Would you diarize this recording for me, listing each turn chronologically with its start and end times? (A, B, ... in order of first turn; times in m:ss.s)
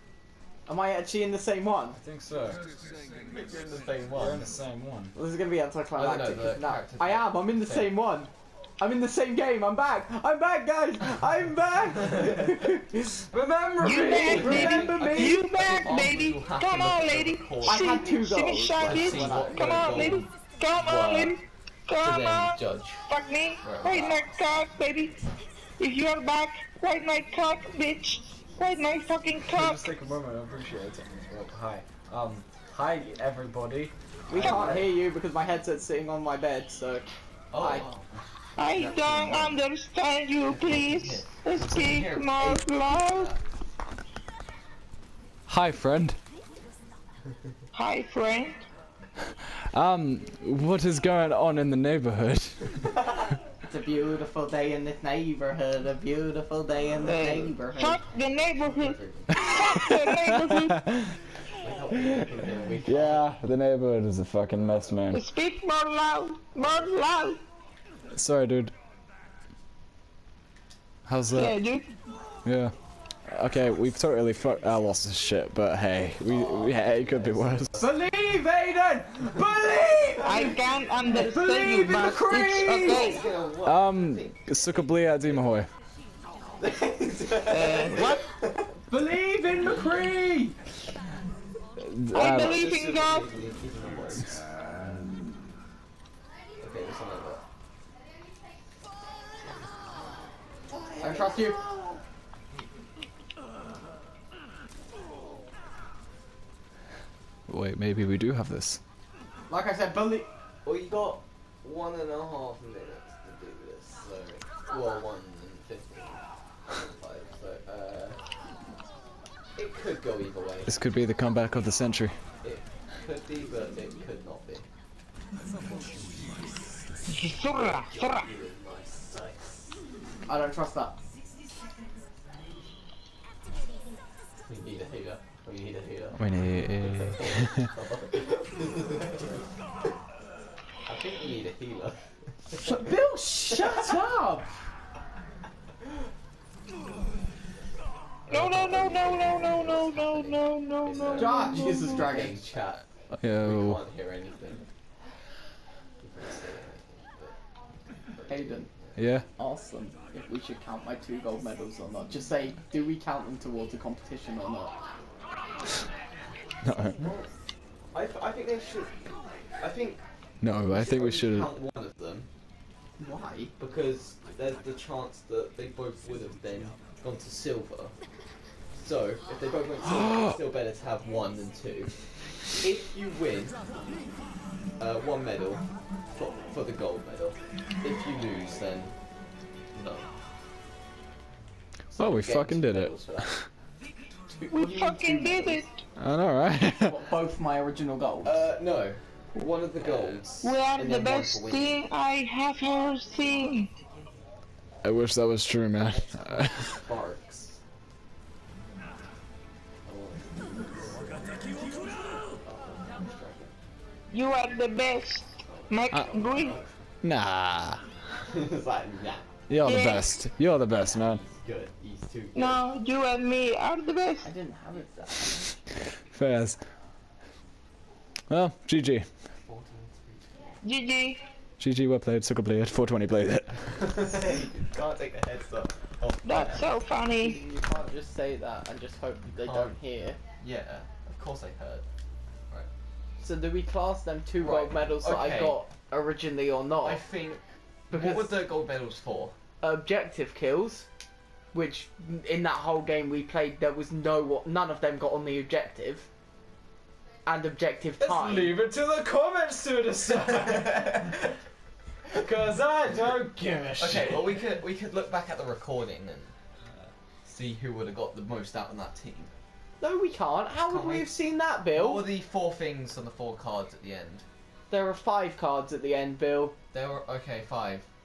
0:00.7-0:02.0 A
0:02.0-0:02.6 B
0:03.3-0:04.4 C
0:04.1-0:05.1 B
0:05.1-0:13.2 A
0:06.0-0:07.9 C
0:13.3-0:14.5 B
0:13.8-0:25.2 D
0:14.1-0:15.4 A
0:14.2-0:18.0 C
0:17.6-0:19.9 A
0:18.8-0:21.4 C
0:22.0-0:23.0 C
0:23.6-0:24.3 C
0:25.8-0:29.8 D
0:29.5-0:34.8 B
0:34.3-0:37.0 A
0:34.4-0:34.8 C
0:37.5-0:39.6 C
0:37.6-0:37.8 A
0:38.6-0:43.3 D
0:40.5-0:43.4 C
0:45.5-0:46.2 B
0:47.7-0:48.6 D
0:49.7-0:52.9 B
0:53.7-0:58.0 A
0:57.0-1:00.8 D
0:58.2-0:59.4 C
0:59.3-1:01.1 B
1:01.6-1:03.3 C
1:02.8-1:05.2 B
1:05.1-1:07.4 D
1:06.6-1:06.9 C
1:08.1-1:08.7 B
1:11.1-1:11.5 B
1:11.3-1:11.9 D
1:12.4-1:12.7 B
1:13.3-1:17.8 B
1:16.2-1:17.9 C
1:17.8-1:20.5 A
1:20.2-1:20.6 C
1:20.2-1:23.2 D
1:21.0-1:23.2 A
1:22.7-1:24.3 C
1:23.6-1:25.7 B
1:26.6-1:28.7 C
1:27.5-1:28.2 D
1:28.9-1:30.6 A
1:31.8-1:32.6 B
1:32.1-1:33.2 D
1:32.2-1:34.4 C
1:36.6-1:37.4 C
1:40.7-1:42.0 C
1:41.0-1:41.6 A
1:47.5-1:48.8 B
1:49.5-1:50.3 A
1:50.6-1:58.2 C
1:59.5-2:00.7 C
2:00.6-2:02.2 B
2:02.4-2:04.7 C
2:07.2-2:08.2 D
2:07.4-2:09.7 C
2:10.3-2:10.9 A
2:14.4-2:19.4 C
2:16.2-2:17.7 B
2:20.8-2:22.9 C
2:22.6-2:24.5 A
2:23.5-2:23.9 C
2:28.3-2:32.0 D
2:28.3-2:34.6 C
2:31.1-2:32.4 A
2:33.2-2:33.8 B
2:36.0-2:37.4 C
2:38.0-2:39.0 C
2:38.3-2:38.7 A
2:38.9-2:39.2 B
2:39.4-2:44.7 A
2:46.6-2:47.0 B
2:47.0-2:47.3 C
2:47.9-2:48.9 C
2:49.6-2:50.0 C
2:50.4-2:51.5 B
2:50.6-2:52.3 C
2:53.0-2:53.5 A
2:53.6-2:57.9 C
2:58.8-3:03.6 C
3:04.8-3:08.9 C
3:09.7-3:10.1 C
3:11.9-3:13.3 C
3:11.9-3:13.5 B
3:14.3-3:15.6 A
3:14.5-3:15.6 D
3:16.0-3:16.9 B
3:16.8-3:18.5 A
3:18.2-3:21.8 C
3:20.4-3:23.7 D
3:24.8-3:26.8 B
3:25.8-3:27.6 C
3:29.8-3:31.1 C
3:32.4-3:33.5 C
3:34.1-3:36.6 D
3:35.4-3:36.7 C
3:37.0-3:37.8 B
3:38.2-3:39.2 C
3:39.5-3:41.2 B
3:39.6-3:40.1 D
3:40.7-3:42.6 C
3:42.3-3:44.3 D
3:44.2-3:45.6 A
3:46.1-3:46.6 B
3:48.3-3:49.1 B
3:49.3-3:50.6 C
3:50.6-3:51.2 D
3:51.6-3:53.8 B
3:53.7-3:56.7 C
3:56.2-3:57.4 D
3:57.2-4:00.2 A
3:59.4-3:59.8 C
4:00.4-4:01.8 C
4:03.2-4:07.0 A
4:04.4-4:05.6 C
4:06.8-4:09.4 C
4:07.9-4:08.4 A
4:09.6-4:10.9 A
4:11.5-4:16.1 A
4:17.2-4:18.5 A
4:18.0-4:21.3 B
4:20.7-4:21.1 C
4:22.1-4:24.4 B
4:23.8-4:26.3 C
4:27.2-4:29.3 C
4:29.8-4:32.1 A
4:30.7-4:31.1 C
4:31.7-4:34.2 C
4:34.7-4:36.6 A
4:36.7-4:37.9 C